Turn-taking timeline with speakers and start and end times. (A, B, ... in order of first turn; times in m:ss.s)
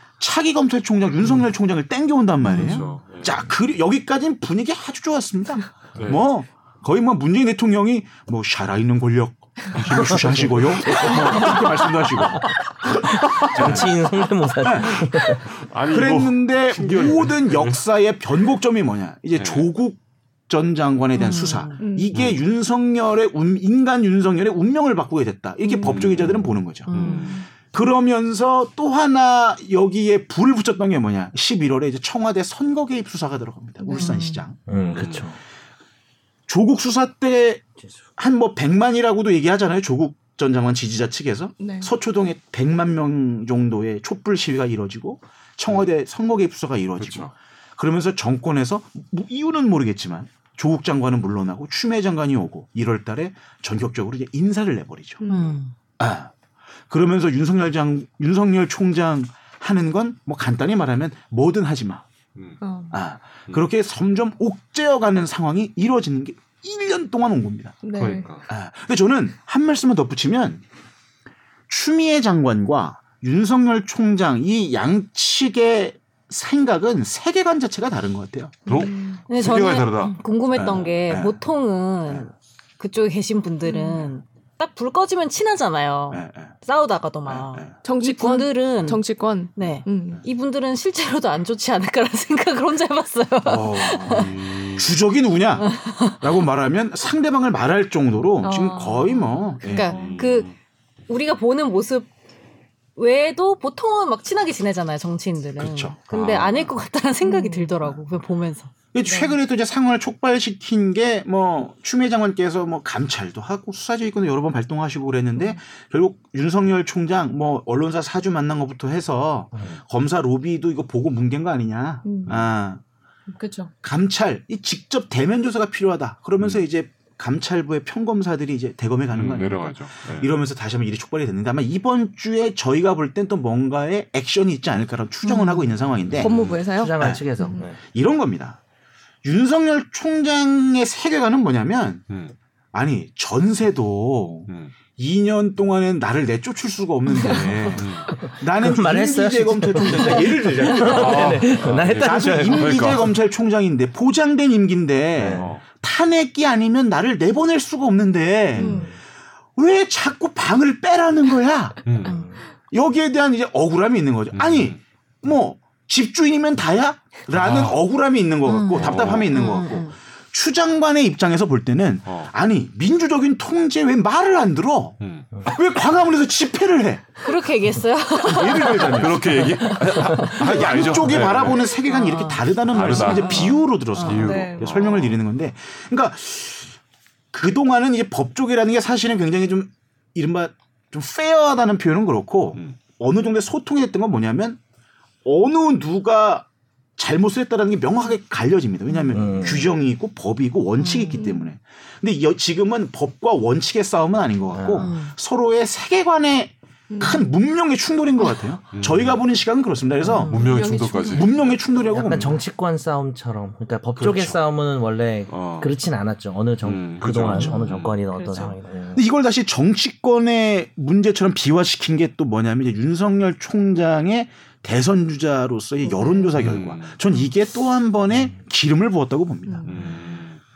0:00.2-0:13.9 A
0:02.4-0:02.8 B
0:02.5-0:03.4 C
0:06.0-0:06.3 C
0:09.7-0:12.0 C
0:13.0-0:15.4 D
0:13.6-0:13.9 C
0:14.6-0:15.1 A
0:15.5-0:17.8 C
0:15.9-0:34.6 A
0:19.4-0:19.7 C
0:21.2-0:21.8 B
0:21.8-0:22.1 E
0:22.1-0:22.4 C
0:25.6-0:26.0 E
0:25.8-0:27.4 C
0:26.9-0:27.3 B
0:26.9-0:27.5 E
0:33.8-0:34.2 E
0:33.9-0:34.4 B
0:34.7-0:35.4 D
0:34.7-0:35.3 C
0:36.5-0:37.6 A
0:38.2-0:55.2 A
0:41.6-0:41.9 E
0:47.0-0:47.3 C
0:55.2-0:55.6 E
0:55.3-0:55.7 B
0:56.0-0:56.3 A
0:56.9-1:02.0 A
1:02.6-1:02.9 E
1:02.9-1:07.8 A
1:07.8-1:08.3 E
1:07.9-1:08.5 C
1:08.5-1:10.6 A
1:11.7-1:18.8 A
1:18.6-1:19.2 E
1:18.6-1:20.2 C
1:19.3-1:29.0 B
1:20.5-1:21.4 A
1:23.6-1:24.0 E
1:26.1-1:26.5 A
1:27.3-1:27.7 A
1:27.8-1:30.2 E
1:29.5-1:34.3 B
1:33.4-1:39.9 A
1:34.0-1:34.9 C
1:35.6-1:36.2 B
1:38.4-1:40.1 E
1:39.6-1:40.5 B
1:39.8-1:40.5 C
1:41.1-1:42.1 B
1:43.0-1:48.7 B
1:45.6-1:46.0 A
1:46.1-1:46.7 C
1:47.2-1:47.7 E
1:48.9-2:02.8 A
1:49.0-1:49.4 E
2:02.0-2:02.3 E
2:03.3-2:03.7 E
2:03.8-2:16.3 A
2:06.4-2:06.6 C
2:09.1-2:10.3 C
2:15.2-2:15.7 B
2:16.2-2:17.7 E
2:16.2-2:16.6 C
2:16.7-2:17.8 D
2:17.0-2:17.2 A
2:17.8-2:18.6 A
2:19.2-2:22.1 A
2:22.7-2:38.9 A
2:24.5-2:24.7 C
2:27.1-2:27.4 E
2:27.6-2:28.2 C
2:28.0-2:33.0 D
2:30.8-2:33.1 C
2:35.2-2:35.5 D
2:35.2-2:35.6 C
2:38.5-2:38.9 E
2:39.6-2:41.9 A
2:41.8-2:42.2 C
2:42.7-2:57.2 A
2:44.3-2:44.8 C
2:47.3-2:47.8 C
2:48.4-2:49.9 B
2:48.7-2:49.4 C
2:52.0-2:52.3 C
2:55.0-2:55.3 C
2:57.2-3:00.5 B
2:58.2-2:59.4 A
2:58.8-3:01.8 C
3:00.3-3:06.7 A
3:01.8-3:04.2 B
3:02.7-3:05.2 C
3:04.1-3:04.8 E
3:07.3-3:14.6 A
3:15.2-3:32.4 A
3:19.1-3:19.7 D
3:20.8-3:21.3 B
3:21.1-3:21.5 E
3:24.5-3:24.9 D
3:24.8-3:25.1 B
3:26.9-3:27.3 E
3:28.7-3:29.2 C
3:30.0-3:30.6 B
3:30.1-3:31.7 C
3:30.3-3:31.3 E
3:31.9-3:39.0 D
3:34.0-3:34.4 A
3:35.3-3:35.7 C
3:36.6-3:38.0 C
3:38.1-3:38.6 E
3:38.9-3:49.9 A
3:45.8-3:46.3 E
3:46.4-3:47.0 C
3:49.5-3:50.0 E
3:49.7-3:50.4 C